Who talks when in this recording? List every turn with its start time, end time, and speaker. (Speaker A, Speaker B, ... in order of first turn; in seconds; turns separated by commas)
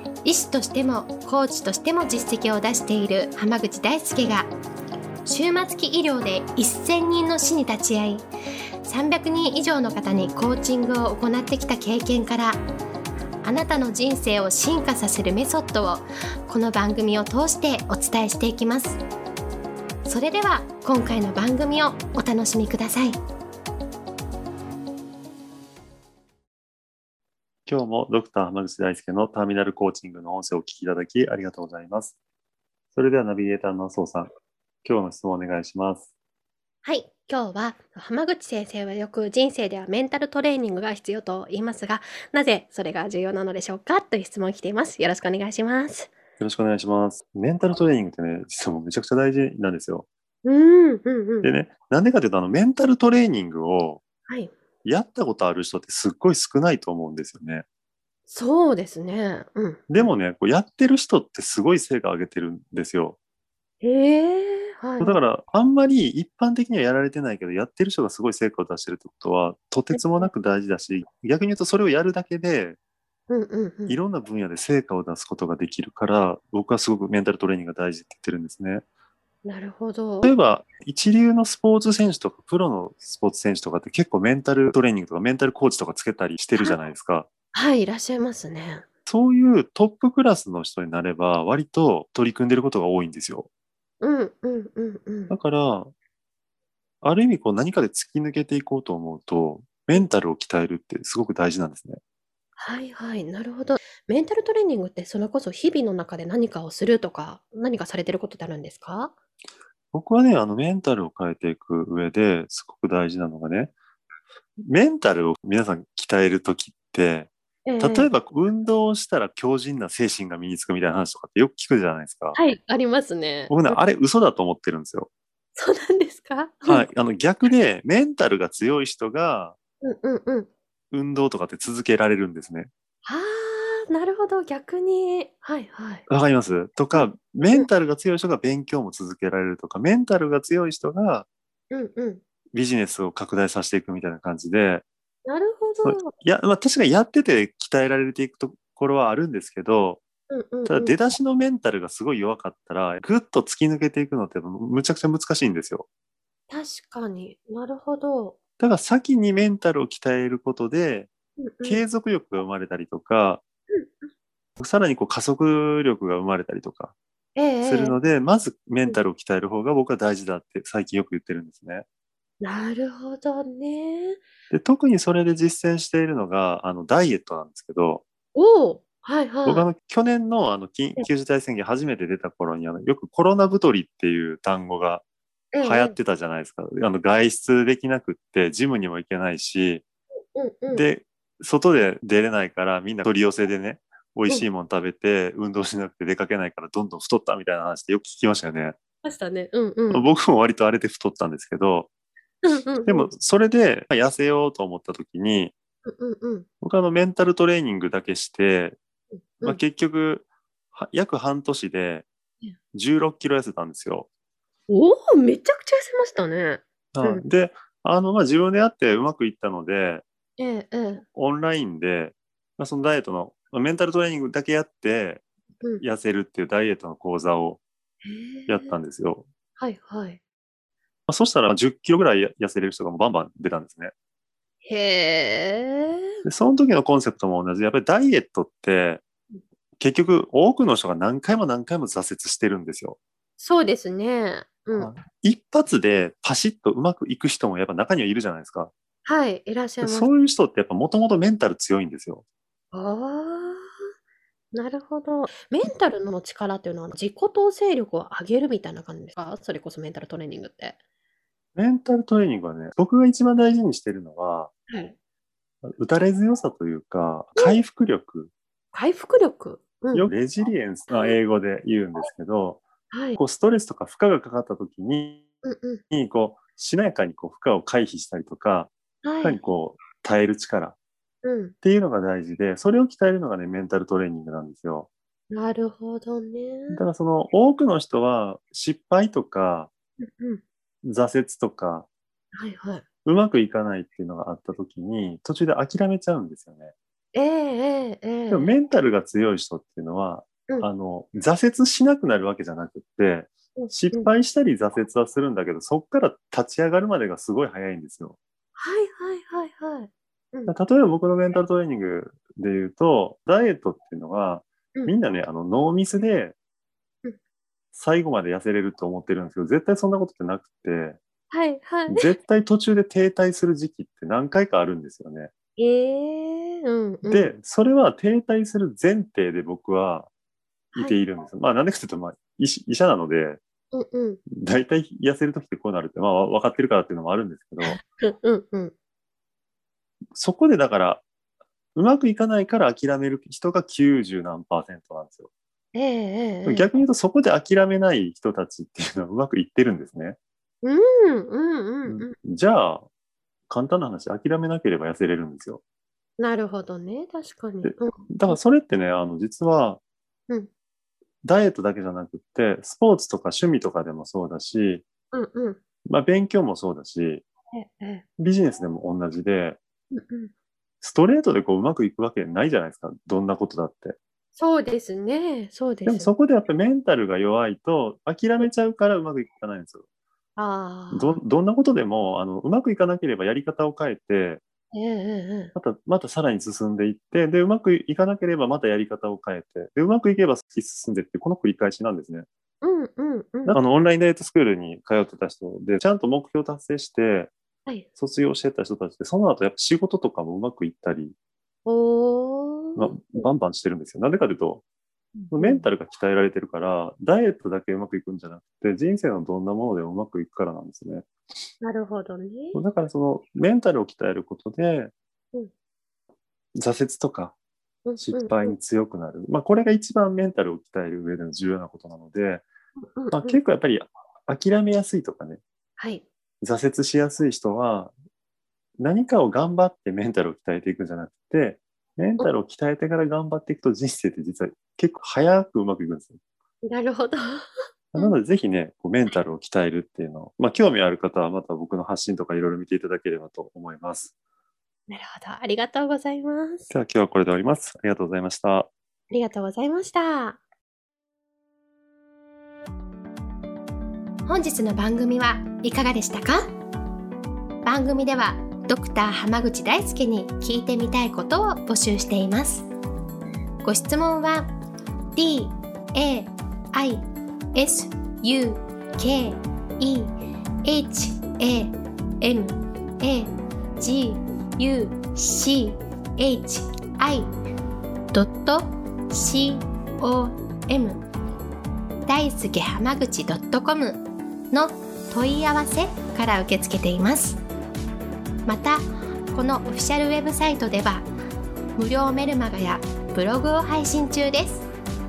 Speaker A: 0.2-4.5, Speaker A: 5.2-8.2, Speaker A: 8.8-12.6, Speaker A: 13.4-19.0, Speaker A: 20.0-23.2, Speaker B: 27.6-32.2, Speaker B: 32.9-34.3, Speaker B: 34.8-36.1, Speaker A: 36.8-46.1, Speaker B: 46.4-50.1, Speaker A: 50.4-51.5, Speaker B: 51.4-54.0, Speaker A: 54.3-54.5, Speaker B: 54.8-57.6, Speaker A: 58.3-59.8, Speaker B: 59.9-63.2, Speaker A: 63.8-65.2, Speaker B: 65.0-72.8, Speaker A: 69.9-70.3, Speaker A: 73.3-74.0, Speaker B: 73.9-78.8, Speaker A: 79.4-80.3, Speaker B: 80.2-87.3, Speaker A: 87.5-88.8, Speaker B: 89.0-93.5, Speaker A: 94.0-95.3, Speaker B: 95.3-95.9, Speaker B: 97.0-102.0, Speaker A: 102.6-109.1, Speaker B: 109.9-113.7, Speaker B: 114.6-122.4, Speaker A: 117.7-118.1, Speaker A: 122.3-123.7, Speaker B: 123.5-125.1, Speaker A: 125.5-126.8, Speaker B: 126.7-129.6, Speaker A: 129.8-130.5, Speaker B: 130.9-132.7, Speaker A: 133.0-136.0, Speaker B: 136.1-141.3, Speaker A: 141.7-142.2, Speaker B: 142.5-144.8, Speaker A: 145.2-146.1, Speaker B: 145.8-150.0, Speaker A: 150.3-150.9, Speaker B: 150.7-155.8, Speaker A: 156.5-158.3, Speaker B: 158.6-161.1, Speaker A: 161.4-161.8, Speaker B: 161.6-163.4, Speaker B: 164.6-166.9, Speaker A: 167.3-167.9, Speaker B: 167.6-171.8, Speaker A: 172.4-174.2, Speaker B: 174.5-178.0, Speaker A: 178.3-179.7, Speaker B: 179.4-185.0, Speaker A: 185.5-185.9, Speaker B: 185.6-189.8, Speaker A: 190.3-190.8, Speaker B: 190.7-198.8, Speaker A: 199.0-200.0, Speaker B: 199.9-201.9, Speaker A: 202.4-203.1, Speaker B: 202.8-205.5, Speaker A: 205.8-206.5, Speaker B: 206.6-208.8, Speaker A: 209.1-209.6, Speaker B: 209.4-212.1, Speaker B: 212.7-214.1, Speaker A: 214.7-217.2, Speaker B: 216.9-220.0, Speaker A: 220.4-221.0, Speaker B: 221.2-225.2, Speaker B: 225.8-227.6, Speaker A: 228.0-228.8, Speaker B: 228.5-229.3, Speaker A: 229.6-230.2, Speaker B: 231.1-233.9, Speaker A: 234.6-236.1, Speaker B: 236.2-239.0, Speaker B: 239.8-243.0, Speaker A: 243.4-244.9, Speaker B: 244.8-248.7, Speaker A: 249.0-250.0, Speaker B: 249.8-252.2, Speaker A: 252.7-253.7, Speaker A: 254.5-260.8, Speaker B: 261.6-264.5, Speaker A: 264.7-265.0, Speaker B: 265.6-268.3, Speaker A: 268.7-270.1, Speaker B: 269.9-272.6, Speaker A: 272.9-273.2, Speaker B: 273.2-275.3, Speaker A: 275.4-275.8, Speaker B: 275.9-278.7, Speaker A: 279.0-279.4, Speaker B: 279.2-280.8, Speaker A: 281.2-281.5, Speaker B: 281.6-284.9, Speaker A: 285.3-286.8, Speaker B: 286.7-289.7, Speaker A: 290.0-290.4, Speaker B: 290.8-291.9, Speaker A: 292.4-292.9, Speaker B: 293.1-296.7, Speaker A: 297.1-298.5, Speaker B: 298.3-308.2, Speaker A: 303.6-304.1, Speaker A: 308.6-310.5, Speaker B: 310.5-316.4, Speaker B: 317.7-321.0, Speaker A: 321.3-322.1, Speaker B: 321.9-325.3, Speaker A: 325.6-327.2, Speaker B: 327.0-330.1, Speaker B: 330.8-333.4, Speaker A: 333.7-334.2, Speaker B: 334.3-337.8, Speaker A: 337.6-338.7, Speaker B: 340.1-341.0, Speaker B: 341.8-345.3, Speaker A: 345.7-346.7, Speaker B: 346.5-350.2, Speaker A: 350.6-352.1, Speaker B: 351.9-352.9, Speaker B: 353.5-355.6, Speaker A: 356.2-358.1, Speaker B: 357.6-359.8, Speaker B: 361.2-364.9, Speaker A: 365.1-365.6, Speaker B: 365.9-367.2, Speaker A: 367.6-368.0, Speaker B: 368.2-369.6, Speaker A: 369.9-370.3, Speaker B: 370.8-374.0, Speaker A: 374.4-376.1, Speaker B: 375.9-379.8, Speaker A: 380.4-381.2, Speaker B: 380.9-384.4, Speaker A: 384.7-385.5, Speaker B: 385.6-392.3, Speaker A: 392.6-393.6, Speaker B: 393.5-397.3, Speaker B: 398.0-401.1, Speaker A: 401.7-403.2, Speaker B: 402.8-404.6, Speaker A: 405.2-405.6, Speaker B: 405.3-411.1, Speaker A: 411.6-412.6, Speaker B: 412.6-414.9, Speaker B: 416.6-417.4, Speaker A: 417.9-418.5, Speaker B: 418.0-422.5, Speaker A: 423.0-423.2, Speaker B: 423.1-425.4, Speaker A: 425.8-426.1, Speaker B: 426.4-427.9, Speaker B: 428.8-436.2, Speaker A: 436.7-437.4, Speaker B: 437.9-444.1, Speaker A: 444.9-446.6, Speaker B: 446.7-448.7, Speaker A: 449.1-450.4, Speaker A: 454.2-456.5, Speaker A: 457.6-462.7, Speaker A: 463.6-464.5, Speaker A: 465.1-470.1, Speaker A: 470.6-477.3, Speaker A: 478.1-481.0, Speaker A: 482.1-487.4, Speaker A: 488.5-491.1, Speaker A: 491.8-494.7